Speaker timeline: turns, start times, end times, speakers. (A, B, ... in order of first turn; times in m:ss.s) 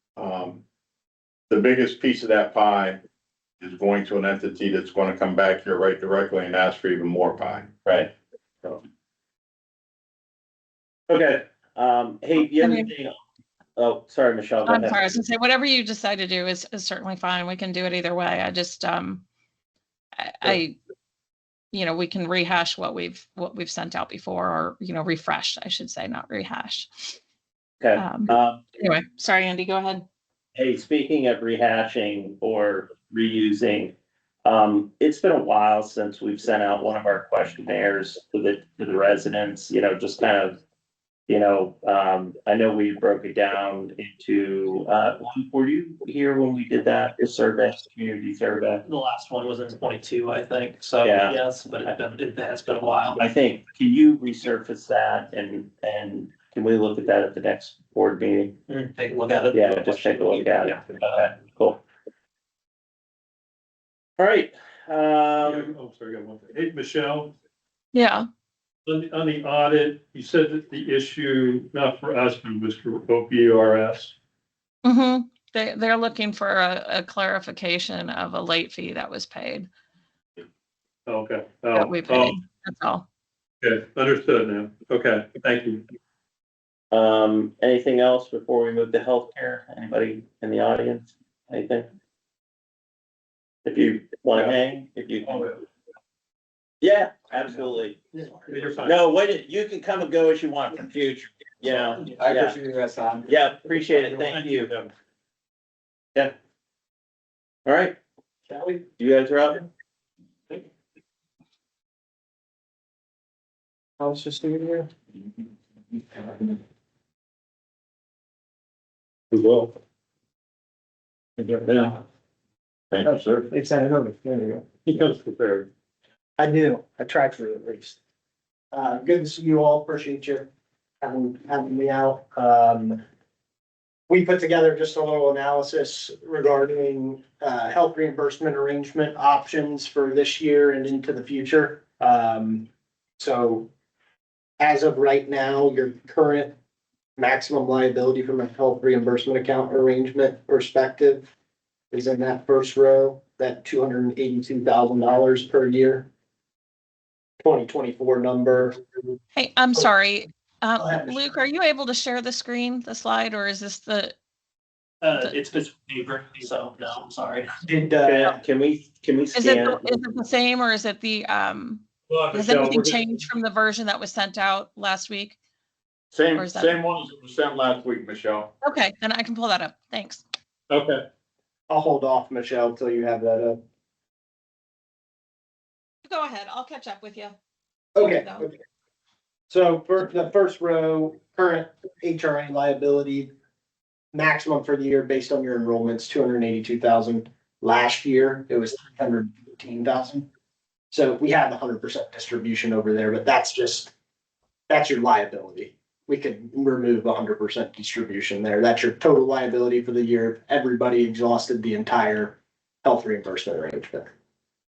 0:00.2-0:00.6 A
0:01.5-0:03.0 A
0:03.6-0:07.7 A
0:07.8-0:08.1 B
0:11.1-0:13.2 B
0:12.6-0:12.9 C
0:13.8-0:15.1 B
0:14.7-0:19.2 C
0:20.2-0:20.8 C
0:21.7-0:27.2 C
0:27.8-0:28.6 B
0:28.0-0:30.1 C
0:30.6-0:40.6 B
0:41.3-0:48.8 B
0:48.8-0:53.3 D
0:51.0-0:51.4 B
0:53.2-0:58.6 B
0:58.7-1:01.3 D
0:59.5-1:01.8 B
1:04.2-1:05.7 B
1:05.4-1:07.4 E
1:07.9-1:08.3 C
1:08.9-1:14.2 E
1:14.8-1:19.7 C
1:21.1-1:22.4 E
1:21.8-1:23.0 C
1:23.6-1:25.8 E
1:26.9-1:31.9 B
1:33.6-1:35.5 B
1:35.2-1:35.6 E
1:36.8-1:38.0 B
1:38.5-1:39.0 E
1:38.8-1:42.6 B
1:43.3-1:44.7 B
1:44.3-1:44.9 E
1:47.7-1:48.0 B
1:48.9-1:49.7 B
1:54.0-1:54.7 F
1:59.3-1:59.7 E
2:01.4-2:02.0 E
2:02.9-2:03.5 A
2:03.0-2:04.6 F
2:04.8-2:05.7 E
2:06.4-2:08.0 F
2:08.7-2:10.5 F
2:11.0-2:13.0 F
2:14.1-2:23.7 F
2:24.6-2:26.5 F
2:27.2-2:31.3 F
2:31.9-2:36.1 F
2:37.4-2:38.8 F
2:39.4-2:44.2 C
2:40.8-2:41.2 F
2:45.0-2:47.5 D
2:47.6-2:48.4 F
2:48.0-2:49.9 B
2:49.4-2:55.4 C
2:52.1-2:53.2 E
2:56.1-2:58.5 A
2:56.3-2:56.8 C
2:58.6-3:00.2 C
3:00.7-3:01.0 E
3:01.7-3:03.6 F
3:06.0-3:07.4 C
3:08.0-3:08.6 F
3:08.0-3:08.5 C
3:09.5-3:13.3 F
3:14.1-3:20.3 F
3:20.9-3:23.9 F
3:24.7-3:34.1 F